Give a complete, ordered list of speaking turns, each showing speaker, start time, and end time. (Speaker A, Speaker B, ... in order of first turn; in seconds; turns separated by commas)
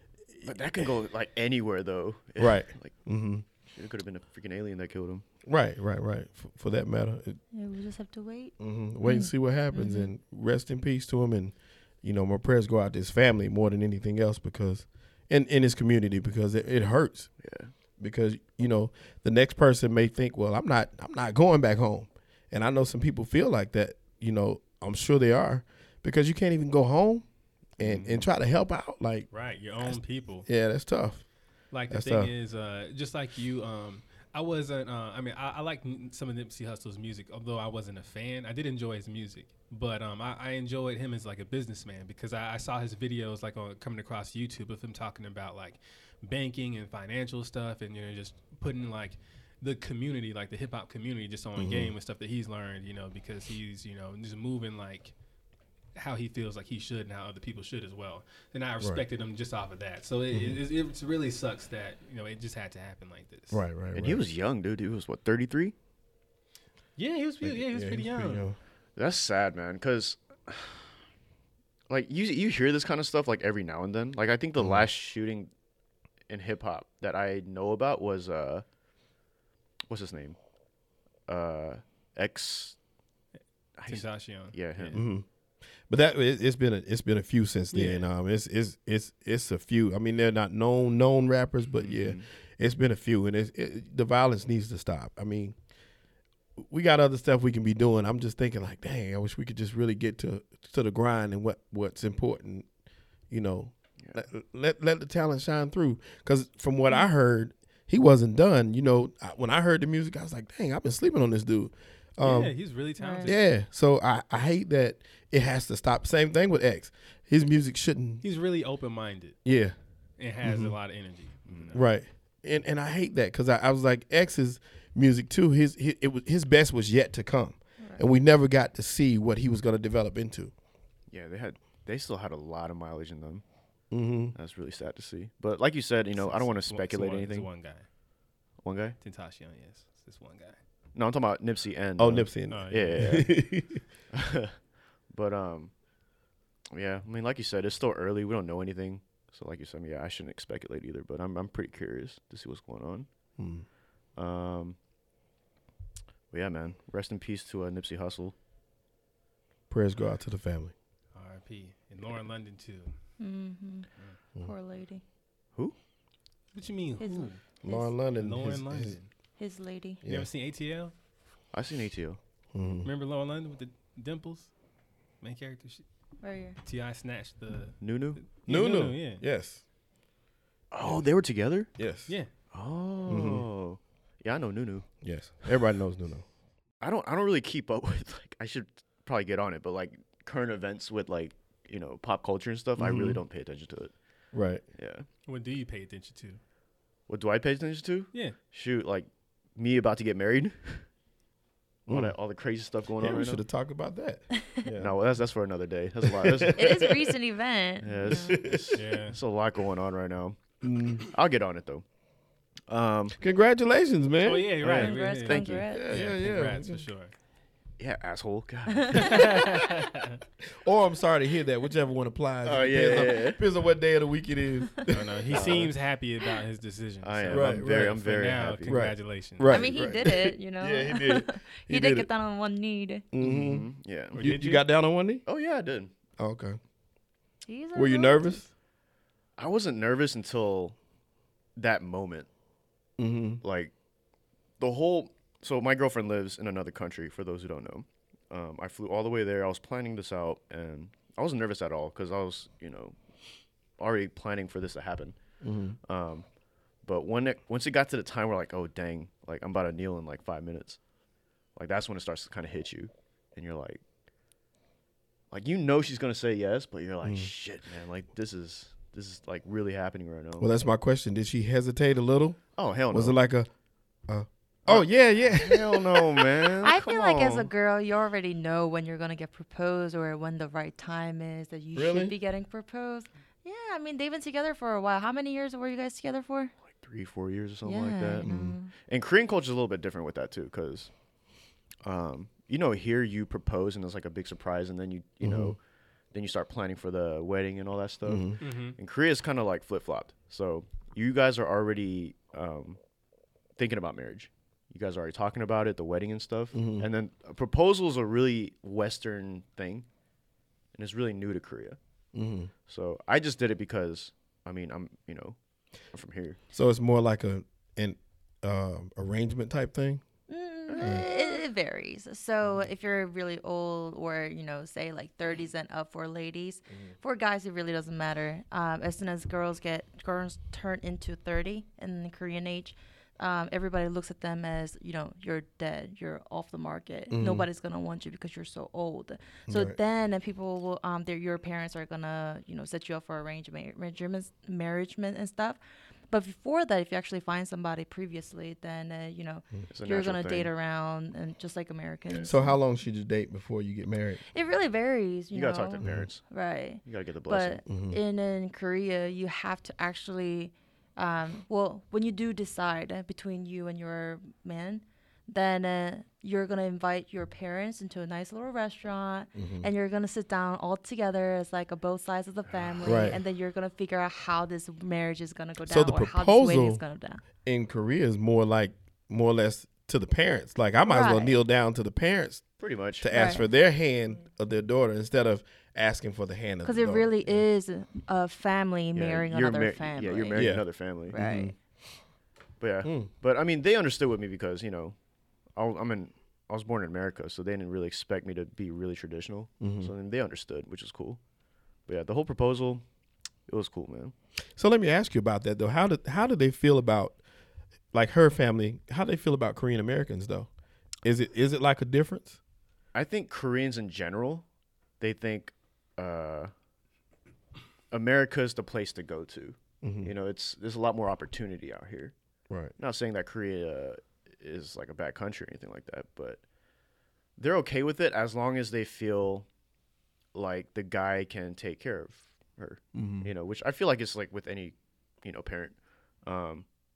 Speaker A: 0.4-2.9, Speaker B: 2.4-3.5, Speaker A: 3.7-5.2, Speaker B: 5.5-7.4, Speaker C: 7.5-10.1, Speaker B: 8.6-17.3, Speaker A: 17.4-17.7, Speaker B: 18.0-27.2, Speaker B: 27.8-29.3, Speaker A: 27.8-28.3, Speaker D: 29.3-30.5, Speaker B: 29.8-31.2, Speaker D: 31.7-55.1, Speaker B: 31.9-32.3, Speaker B: 51.6-51.9, Speaker D: 56.0-63.6, Speaker B: 60.3-60.6, Speaker B: 63.5-64.2, Speaker A: 63.9-65.8, Speaker D: 67.0-68.5, Speaker B: 67.4-68.6, Speaker A: 69.0-70.8, Speaker A: 71.9-75.5, Speaker B: 74.6-74.9, Speaker A: 76.3-78.7, Speaker A: 79.9-80.4, Speaker A: 81.3-82.8, Speaker A: 83.8-85.0, Speaker D: 83.9-85.0, Speaker B: 84.9-85.2, Speaker B: 85.9-95.6, Speaker D: 87.7-88.0, Speaker A: 91.8-92.3, Speaker B: 96.6-102.7, Speaker B: 103.3-112.5, Speaker D: 112.2-113.4, Speaker C: 113.0-113.3, Speaker B: 113.2-118.2, Speaker D: 118.2-119.4, Speaker B: 119.5-119.8, Speaker D: 120.2-121.9, Speaker B: 120.4-120.8, Speaker A: 121.5-121.8, Speaker B: 121.7-130.5, Speaker C: 127.8-128.1, Speaker A: 131.1-133.4, Speaker B: 133.9-134.3, Speaker A: 134.3-137.5, Speaker D: 136.2-137.9, Speaker A: 138.6-139.0, Speaker D: 139.0-140.6, Speaker A: 140.9-143.3, Speaker B: 142.0-143.8, Speaker D: 142.5-143.2, Speaker A: 144.1-144.6, Speaker A: 145.1-145.7, Speaker A: 146.7-153.1, Speaker B: 153.4-153.7, Speaker A: 154.2-154.8, Speaker A: 156.3-158.3, Speaker B: 159.7-160.7, Speaker D: 161.2-162.9, Speaker C: 163.2-163.9, Speaker C: 164.4-165.0, Speaker D: 166.5-167.4, Speaker C: 167.0-167.9, Speaker B: 167.6-169.0, Speaker D: 168.2-169.1, Speaker C: 169.4-170.0, Speaker B: 170.0-170.3, Speaker D: 170.1-170.9, Speaker A: 171.5-172.2, Speaker B: 172.5-172.9, Speaker D: 172.8-174.5, Speaker D: 175.2-175.8, Speaker C: 176.2-176.6, Speaker D: 176.6-179.2, Speaker A: 177.8-178.2, Speaker B: 178.5-179.6, Speaker A: 180.7-181.7, Speaker B: 181.8-182.1, Speaker A: 182.5-184.9, Speaker B: 183.1-183.5, Speaker B: 185.0-186.2, Speaker A: 186.8-193.9, Speaker B: 192.8-193.2, Speaker B: 194.3-194.6, Speaker A: 194.8-195.1, Speaker D: 195.3-196.4, Speaker A: 197.1-200.8, Speaker B: 201.9-202.2, Speaker A: 201.9-203.4, Speaker B: 203.0-205.0, Speaker A: 204.8-206.8, Speaker B: 206.0-207.2, Speaker C: 206.6-208.4, Speaker A: 207.8-210.4, Speaker B: 208.1-208.8, Speaker D: 208.8-209.2, Speaker B: 210.6-211.1, Speaker A: 211.0-211.8, Speaker A: 212.7-213.2, Speaker B: 213.2-214.7, Speaker D: 214.2-217.1, Speaker A: 214.6-215.7, Speaker C: 214.7-216.0, Speaker B: 215.7-216.9, Speaker A: 217.8-219.7, Speaker C: 218.9-219.3, Speaker D: 218.9-220.2, Speaker B: 220.6-225.7, Speaker A: 222.4-223.4, Speaker D: 224.9-229.6, Speaker A: 225.3-225.8, Speaker A: 227.0-228.8, Speaker B: 227.3-227.9, Speaker B: 228.7-232.1, Speaker C: 229.4-233.0, Speaker B: 233.1-235.2, Speaker A: 233.2-234.5, Speaker D: 234.2-234.6, Speaker A: 235.3-235.9, Speaker B: 236.2-236.6, Speaker C: 237.4-238.4, Speaker B: 237.8-238.5, Speaker A: 239.4-240.8, Speaker A: 241.6-242.3, Speaker B: 243.0-243.4, Speaker A: 243.4-243.7, Speaker A: 244.6-253.0, Speaker A: 253.8-255.2, Speaker B: 255.4-255.8, Speaker A: 255.8-256.3, Speaker A: 256.8-260.8, Speaker A: 261.6-263.8, Speaker A: 265.3-270.5, Speaker B: 267.0-267.3, Speaker B: 270.4-272.4, Speaker A: 272.6-273.2, Speaker B: 272.9-273.5, Speaker B: 274.1-276.4, Speaker A: 274.7-277.5, Speaker C: 276.6-286.5, Speaker B: 281.8-282.1, Speaker A: 286.7-288.3, Speaker C: 287.6-288.7, Speaker B: 288.2-288.6, Speaker A: 288.8-290.9, Speaker A: 291.8-295.6, Speaker B: 295.2-295.6, Speaker A: 296.1-302.8, Speaker B: 298.1-298.4, Speaker D: 298.4-298.8, Speaker A: 303.6-309.9, Speaker B: 306.5-306.9, Speaker A: 310.8-311.8, Speaker B: 312.1-312.5, Speaker A: 312.7-315.4, Speaker A: 315.9-316.4, Speaker B: 316.5-320.0, Speaker C: 320.3-345.6, Speaker A: 320.7-321.2, Speaker B: 337.1-337.5, Speaker B: 339.5-339.8, Speaker C: 346.1-352.6, Speaker A: 349.7-350.5, Speaker B: 352.2-354.2, Speaker C: 354.3-377.2, Speaker A: 355.3-356.2, Speaker B: 355.8-356.1, Speaker A: 356.8-357.6, Speaker B: 357.7-358.0, Speaker B: 369.4-369.7, Speaker B: 372.8-373.2, Speaker B: 375.7-376.8, Speaker B: 377.4-382.5, Speaker C: 380.9-381.4, Speaker A: 382.6-383.1, Speaker B: 383.0-387.4, Speaker C: 383.1-383.5, Speaker C: 386.6-390.4, Speaker A: 388.9-391.2, Speaker B: 390.3-391.6, Speaker C: 391.1-391.5, Speaker A: 392.6-395.0, Speaker B: 392.8-393.1, Speaker A: 395.6-401.2, Speaker B: 399.6-399.9, Speaker A: 401.9-402.8, Speaker A: 403.5-404.1, Speaker B: 404.6-407.2, Speaker B: 407.9-410.5, Speaker B: 411.0-412.4, Speaker A: 412.9-414.5, Speaker A: 415.0-416.5, Speaker A: 417.9-422.1, Speaker B: 419.8-420.1, Speaker A: 422.8-426.4, Speaker A: 427.4-429.5, Speaker A: 430.3-436.7, Speaker B: 432.9-433.3